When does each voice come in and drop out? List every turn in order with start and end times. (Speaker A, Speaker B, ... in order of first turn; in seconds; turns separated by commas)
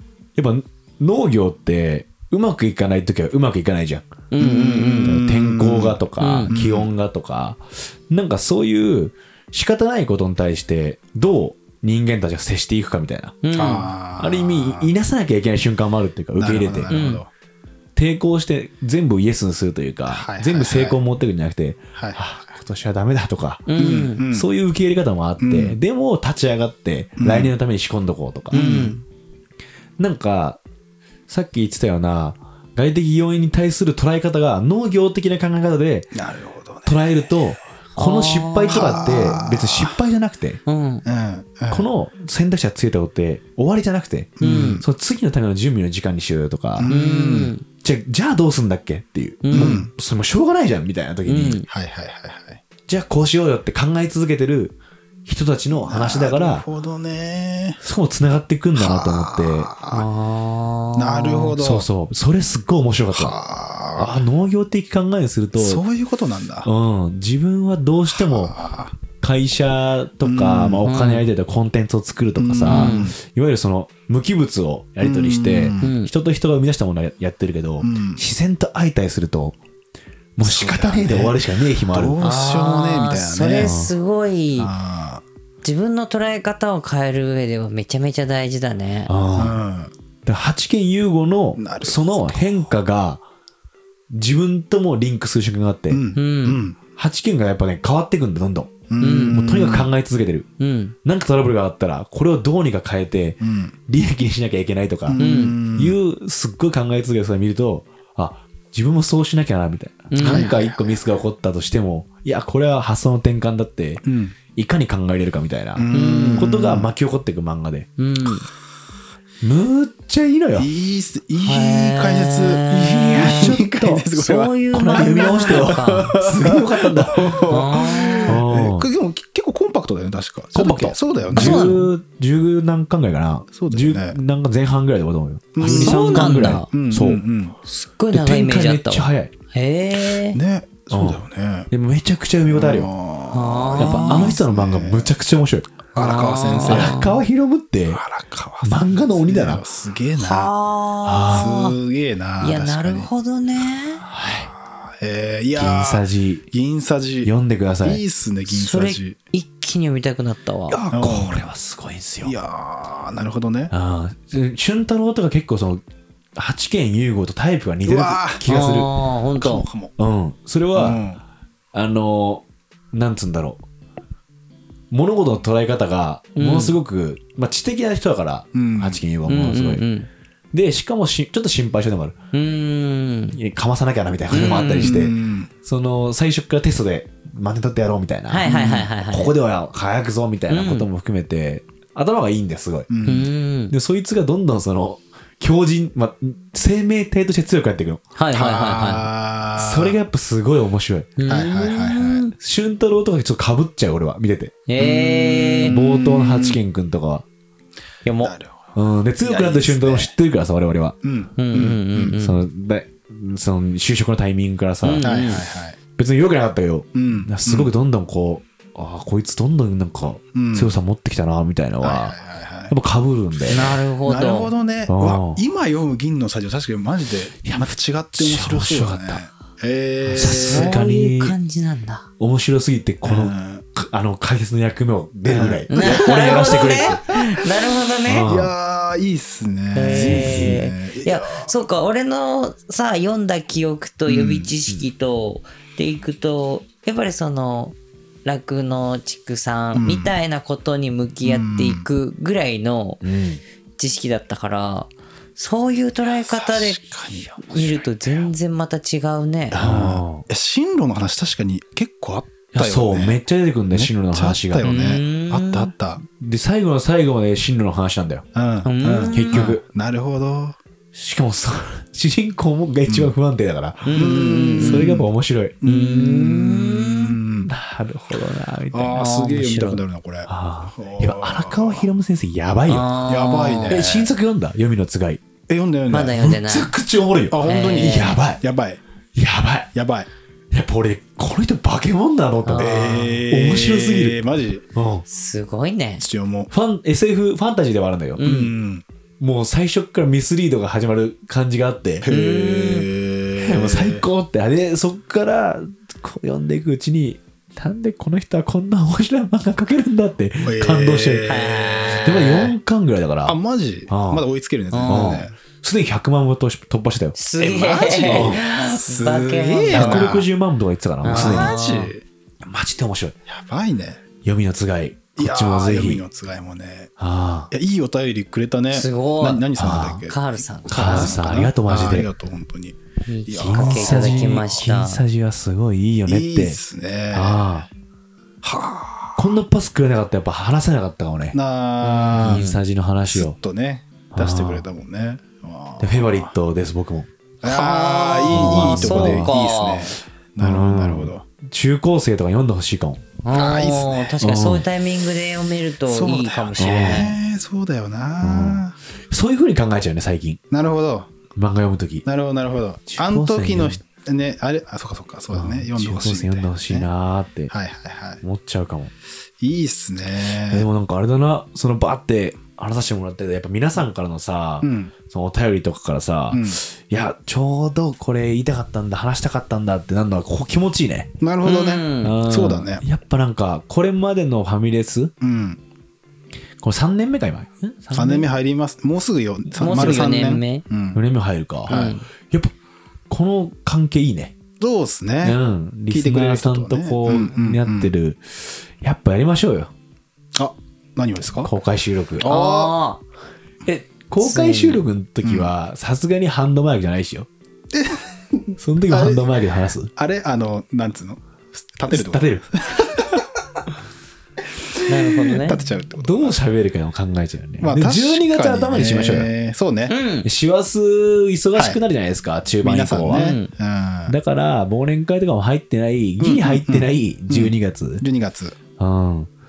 Speaker A: 0.3-4.1, Speaker B: 4.3-5.2, Speaker C: 4.4-6.9, Speaker A: 5.0-13.4, Speaker B: 6.2-6.5, Speaker B: 13.4-13.9, Speaker C: 13.5-14.9, Speaker A: 14.2-17.0, Speaker C: 16.4-17.3, Speaker B: 16.9-17.2, Speaker A: 17.9-23.7, Speaker C: 20.1-21.0, Speaker C: 21.9-22.4, Speaker B: 23.7-24.2, Speaker C: 23.8-24.5, Speaker A: 24.2-28.7, Speaker C: 25.4-25.8, Speaker C: 27.2-27.5, Speaker B: 28.5-29.0, Speaker C: 28.5-29.0, Speaker A: 30.0-30.6, Speaker A: 31.3-36.1, Speaker C: 36.1-37.1, Speaker A: 36.9-40.6, Speaker B: 38.0-39.1, Speaker C: 38.7-40.0, Speaker B: 40.7-41.0, Speaker C: 41.0-41.9, Speaker A: 41.7-46.9, Speaker C: 44.4-44.8, Speaker B: 44.4-44.8, Speaker C: 46.8-47.5, Speaker B: 46.9-47.6, Speaker A: 47.8-51.6, Speaker B: 49.4-49.8, Speaker C: 49.5-49.9, Speaker B: 51.3-51.7, Speaker C: 51.7-52.6, Speaker A: 52.9-56.6, Speaker C: 55.7-57.8, Speaker A: 57.8-59.7, Speaker C: 58.8-60.1, Speaker B: 59.9-61.5, Speaker C: 60.9-61.9, Speaker A: 61.6-63.4, Speaker C: 63.1-64.2, Speaker A: 64.0-65.8, Speaker C: 65.6-66.7, Speaker A: 66.6-68.6, Speaker C: 68.1-68.9, Speaker A: 69.2-79.6, Speaker C: 70.2-70.9, Speaker B: 70.8-71.2, Speaker C: 72.4-73.2, Speaker B: 72.7-73.1, Speaker C: 75.0-75.9, Speaker B: 75.8-76.1, Speaker C: 77.8-78.2, Speaker A: 80.4-82.2, Speaker C: 80.4-83.8, Speaker B: 82.2-84.7, Speaker A: 83.6-83.9, Speaker C: 84.6-85.2, Speaker B: 85.6-89.1, Speaker A: 89.1-89.6, Speaker C: 89.4-89.9, Speaker A: 90.2-93.2, Speaker C: 91.6-92.7, Speaker A: 94.1-96.0, Speaker C: 95.9-96.8, Speaker B: 96.1-96.6, Speaker A: 97.0-100.5, Speaker C: 98.9-99.9, Speaker B: 99.0-99.4, Speaker B: 100.6-100.9, Speaker A: 101.0-117.9, Speaker C: 103.4-103.8, Speaker C: 105.1-106.0, Speaker B: 105.2-105.6, Speaker B: 110.1-110.5, Speaker C: 110.2-111.0, Speaker C: 114.0-114.4, Speaker C: 115.8-116.9, Speaker B: 115.9-116.5, Speaker B: 118.0-118.5, Speaker A: 119.4-120.7, Speaker C: 120.6-124.6, Speaker B: 121.4-123.6, Speaker A: 122.7-124.1, Speaker B: 124.1-126.1, Speaker A: 124.7-127.6, Speaker C: 125.2-131.8, Speaker B: 127.5-128.4, Speaker A: 128.3-128.9, Speaker A: 130.5-137.2, Speaker B: 131.3-131.9, Speaker C: 133.5-134.2, Speaker C: 135.6-137.6, Speaker B: 135.6-136.7, Speaker B: 137.7-140.4, Speaker A: 138.1-139.3, Speaker C: 140.1-141.7, Speaker A: 140.9-142.9, Speaker C: 142.5-145.1, Speaker B: 143.3-144.4, Speaker A: 143.8-145.8, Speaker C: 145.9-147.1, Speaker B: 146.0-147.2, Speaker A: 146.6-148.0, Speaker C: 147.9-150.5, Speaker A: 148.6-149.6, Speaker B: 150.2-151.8, Speaker A: 151.1-151.5, Speaker C: 151.3-153.1, Speaker B: 152.4-154.1, Speaker A: 154.0-154.5, Speaker C: 155.0-157.3, Speaker A: 155.6-156.4, Speaker A: 157.2-158.0, Speaker C: 157.8-159.2, Speaker B: 158.5-160.8, Speaker A: 160.7-162.3, Speaker C: 160.9-161.5, Speaker C: 162.2-163.7, Speaker A: 163.7-165.8, Speaker A: 166.3-168.9, Speaker C: 167.9-168.4, Speaker B: 168.4-169.7, Speaker C: 169.4-169.9, Speaker A: 170.0-171.0, Speaker C: 170.7-171.2, Speaker A: 171.7-173.6, Speaker A: 174.9-179.8, Speaker B: 176.4-176.7, Speaker C: 178.5-179.0, Speaker B: 179.3-180.1, Speaker A: 180.5-182.2, Speaker B: 182.3-183.4, Speaker A: 183.4-188.5, Speaker B: 184.3-185.0, Speaker C: 184.8-185.5, Speaker B: 188.3-189.3, Speaker C: 188.4-188.9, Speaker A: 189.1-192.9, Speaker B: 190.5-190.9, Speaker C: 192.9-193.3, Speaker B: 193.1-193.7, Speaker A: 193.7-198.0, Speaker B: 198.2-199.1, Speaker C: 198.3-200.0, Speaker A: 199.6-201.2, Speaker B: 201.2-202.3, Speaker C: 201.3-202.3, Speaker A: 202.4-204.6, Speaker B: 204.7-205.8, Speaker C: 204.8-206.6, Speaker A: 205.6-207.2, Speaker B: 208.1-208.3, Speaker C: 208.2-210.1, Speaker A: 208.8-210.9, Speaker C: 211.0-212.2, Speaker B: 211.4-212.4, Speaker A: 212.2-215.3, Speaker B: 214.8-215.4, Speaker C: 215.0-215.8, Speaker A: 215.9-222.2, Speaker C: 216.9-217.7, Speaker C: 220.3-220.8, Speaker C: 221.8-222.7, Speaker A: 222.7-223.8, Speaker B: 223.4-224.5, Speaker C: 224.1-230.8, Speaker A: 224.9-225.4, Speaker A: 227.4-229.2, Speaker A: 230.1-231.4, Speaker B: 230.1-232.1, Speaker A: 232.2-237.0, Speaker C: 233.0-233.7, Speaker C: 235.3-236.3, Speaker B: 235.7-238.3, Speaker C: 237.1-237.4, Speaker A: 238.1-238.5, Speaker C: 238.3-241.5, Speaker B: 239.7-253.0, Speaker A: 239.8-240.6, Speaker C: 244.1-244.5, Speaker C: 249.8-250.1, Speaker C: 251.2-251.9, Speaker A: 253.0-253.4, Speaker B: 253.8-256.8, Speaker C: 256.1-258.3, Speaker B: 257.4-259.6, Speaker A: 259.5-260.3, Speaker C: 259.5-263.2, Speaker A: 262.5-264.8, Speaker C: 263.7-266.0, Speaker B: 264.6-265.7, Speaker A: 266.1-268.3, Speaker C: 268.4-270.6, Speaker B: 268.6-269.5, Speaker A: 269.1-269.6, Speaker A: 270.9-275.6, Speaker C: 272.9-273.1, Speaker B: 273.9-274.9, Speaker C: 273.9-275.1, Speaker C: 275.6-277.5, Speaker B: 275.6-277.1, Speaker A: 277.4-279.2, Speaker C: 278.7-281.9, Speaker B: 278.9-279.8, Speaker A: 280.3-282.9, Speaker B: 282.7-283.8, Speaker C: 283.1-284.1, Speaker A: 283.7-285.2, Speaker C: 285.5-286.3, Speaker B: 285.9-286.7, Speaker A: 286.1-288.4, Speaker C: 287.3-288.8, Speaker B: 287.4-288.2, Speaker A: 289.1-289.7, Speaker C: 289.7-290.1, Speaker A: 290.5-294.2, Speaker B: 292.4-293.2, Speaker C: 292.6-294.6, Speaker A: 294.8-295.1, Speaker B: 295.1-296.0, Speaker C: 296.0-296.5, Speaker A: 296.5-298.3, Speaker B: 298.2-298.5, Speaker C: 298.2-298.8, Speaker A: 299.2-302.1, Speaker C: 302.0-304.1, Speaker B: 302.1-302.9, Speaker A: 303.4-311.3, Speaker C: 310.4-312.5, Speaker B: 311.2-312.5, Speaker A: 312.1-313.4, Speaker C: 313.3-315.3, Speaker A: 313.9-314.2, Speaker B: 314.7-315.3, Speaker A: 314.9-317.2, Speaker B: 317.1-320.1, Speaker C: 317.4-320.3, Speaker A: 318.1-318.4, Speaker A: 319.7-321.6, Speaker B: 321.0-321.9, Speaker C: 321.1-322.0, Speaker A: 322.4-323.1, Speaker C: 323.3-324.0, Speaker A: 324.2-326.0, Speaker C: 325.2-326.9, Speaker A: 327.0-327.5, Speaker C: 327.5-334.5, Speaker B: 328.7-331.2, Speaker A: 329.6-330.1, Speaker A: 330.7-332.1, Speaker B: 333.1-335.0, Speaker A: 333.3-336.6, Speaker C: 336.1-337.6, Speaker A: 337.1-337.7, Speaker C: 338.4-339.3, Speaker A: 339.1-341.4, Speaker C: 341.3-342.5, Speaker B: 341.8-342.6, Speaker A: 342.2-343.4, Speaker C: 343.1-346.4, Speaker A: 344.1-344.6, Speaker A: 345.8-347.1, Speaker C: 347.4-351.2, Speaker B: 347.4-350.0, Speaker A: 348.3-349.3, Speaker A: 350.4-353.0, Speaker B: 353.2-357.2, Speaker C: 353.3-354.2, Speaker A: 354.2-354.6, Speaker C: 355.9-358.8, Speaker A: 356.6-357.1, Speaker A: 358.2-360.4, Speaker C: 360.5-361.1, Speaker A: 361.3-362.1, Speaker C: 362.1-366.9, Speaker A: 362.9-363.8, Speaker A: 365.3-367.5, Speaker C: 367.5-368.2, Speaker A: 368.2-368.9, Speaker C: 369.4-370.7, Speaker A: 370.5-381.1, Speaker C: 374.6-374.9, Speaker C: 376.3-376.6, Speaker C: 381.2-382.8, Speaker B: 381.4-382.2, Speaker A: 382.0-385.1, Speaker C: 385.2-385.6, Speaker A: 386.6-388.3, Speaker C: 387.9-391.0, Speaker B: 389.6-390.6, Speaker A: 389.6-390.0, Speaker A: 390.9-392.5, Speaker B: 391.7-392.1, Speaker C: 391.7-391.9, Speaker A: 393.1-394.3, Speaker C: 394.6-395.4, Speaker A: 395.2-399.7, Speaker C: 395.9-397.9, Speaker C: 400.3-401.5, Speaker A: 401.4-402.3, Speaker C: 402.2-402.8, Speaker B: 402.2-403.0, Speaker A: 403.6-407.3, Speaker B: 404.2-404.8, Speaker C: 405.2-405.5, Speaker C: 407.7-409.4, Speaker A: 408.6-409.9, Speaker C: 409.9-413.2, Speaker A: 411.9-413.2, Speaker C: 414.6-416.4, Speaker B: 414.9-415.6, Speaker A: 415.9-419.3, Speaker C: 417.6-419.9, Speaker B: 419.9-420.3, Speaker A: 420.2-423.4, Speaker C: 422.6-424.1, Speaker B: 423.1-423.5, Speaker A: 424.1-428.0, Speaker C: 426.2-428.6, Speaker A: 428.8-429.3